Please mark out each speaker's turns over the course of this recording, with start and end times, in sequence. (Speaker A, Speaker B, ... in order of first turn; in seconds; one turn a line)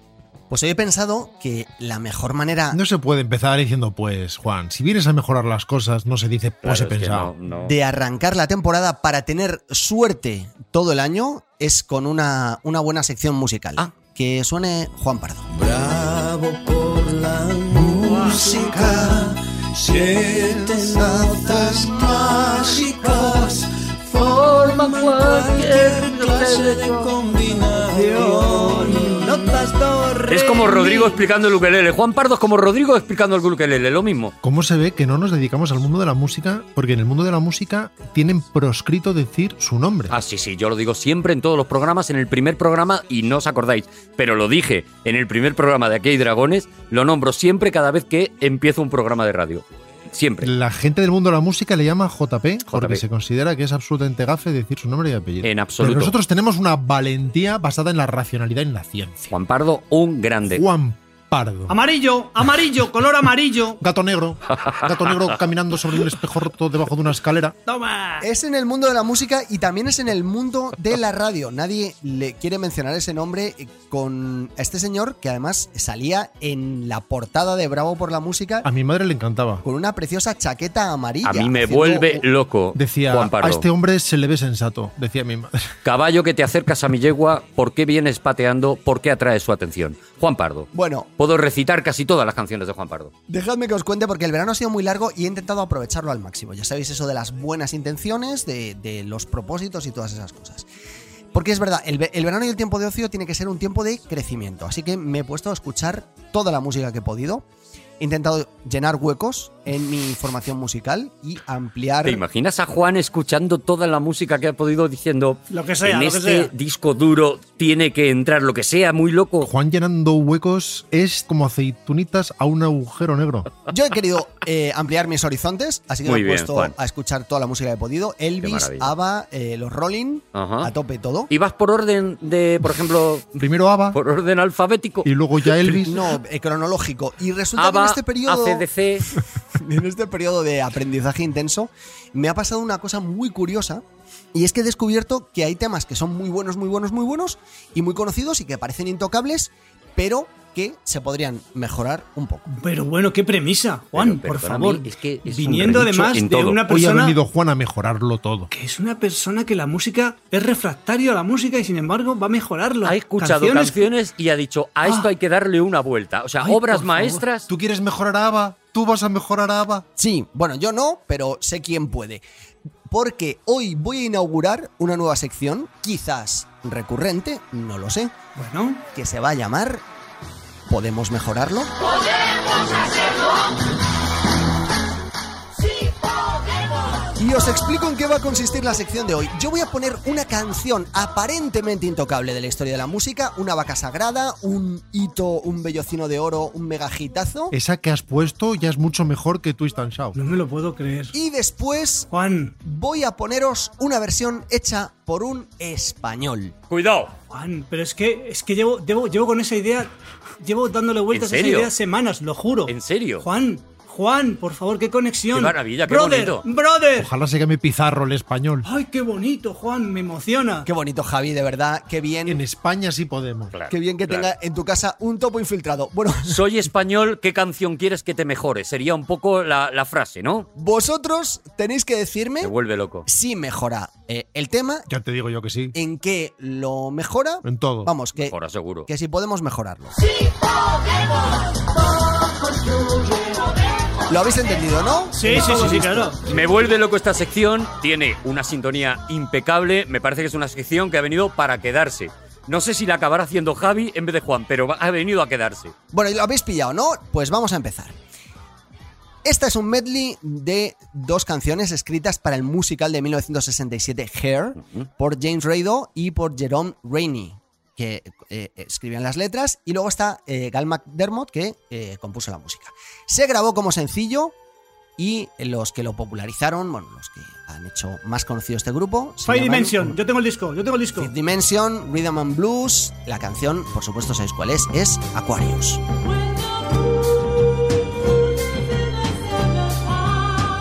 Speaker A: 0.5-2.8
Speaker B: 2.7-7.3
Speaker C: 6.6-7.8
Speaker A: 7.5-15.5
Speaker D: 15.5-30.9
Speaker C: 24.2-27.1
Speaker E: 27.9-28.3
Speaker C: 30.3-34.3
Speaker B: 34.4-40.1
Speaker C: 40.1-50.5
Speaker B: 50.4-59.3
Speaker C: 52.7-53.0
Speaker C: 55.4-56.1
Speaker C: 59.3-60.6
Speaker B: 60.5-61.7
Speaker E: 61.7-63.8
Speaker B: 63.8-67.5
Speaker E: 67.7-68.2
Speaker A: 68.2-78.7
Speaker B: 78.6-79.6
Speaker A: 79.6-82.2
Speaker C: 81.2-83.6
Speaker B: 82.7-85.6
Speaker C: 85.8-93.1
Speaker A: 90.7-91.1
Speaker A: 93.3-100.7
Speaker A: 101.3-107.4
Speaker A: 108.0-112.2
Speaker C: 112.0-119.5
Speaker E: 115.5-116.5
Speaker B: 119.4-123.5
Speaker A: 123.7-131.3
Speaker C: 126.0-126.7
Speaker C: 128.4-128.9
Speaker C: 130.3-130.7
Speaker C: 131.3-133.3
Speaker B: 133.3-134.0
Speaker C: 133.9-135.1
Speaker B: 135.0-136.0
Speaker A: 135.6-138.7
Speaker C: 137.6-139.1
Speaker A: 139.5-152.5
Speaker E: 152.5-157.2
Speaker C: 153.9-156.6
Speaker B: 156.7-158.5
Speaker E: 158.5-163.9
Speaker C: 162.8-167.4
Speaker E: 166.4-167.2
Speaker B: 167.5-169.8
Speaker A: 170.0-172.2
Speaker A: 172.9-178.1
Speaker E: 178.3-178.8
Speaker A: 178.9-179.8
Speaker A: 180.7-181.7
Speaker A: 187.2-197.5
Speaker B: 197.5-200.2
Speaker E: 200.1-201.1
Speaker A: 201.1-202.1
Speaker E: 202.1-202.6
Speaker A: 202.6-206.6
Speaker C: 206.7-207.1
Speaker E: 207.3-217.1
Speaker C: 211.1-211.7
Speaker C: 212.7-213.2
Speaker C: 215.3-216.4
Speaker B: 217.0-218.7
Speaker E: 218.6-220.7
Speaker A: 220.6-222.4
Speaker B: 222.2-223.5
Speaker C: 223.5-224.3
Speaker A: 223.7-226.4
Speaker C: 226.2-230.5
Speaker A: 230.5-232.5
Speaker C: 232.4-233.1
Speaker A: 233.1-234.9
Speaker B: 234.9-235.7
Speaker A: 235.7-238.3
Speaker B: 237.4-237.9
Speaker C: 238.2-238.9
Speaker A: 238.9-239.9
Speaker A: 244.1-246.3
Speaker E: 245.2-246.2
Speaker C: 246.3-255.7
Speaker A: 255.9-257.9
Speaker A: 259.2-274.3
Speaker A: 275.0-280.0
Speaker E: 279.2-281.1
Speaker A: 281.0-285.8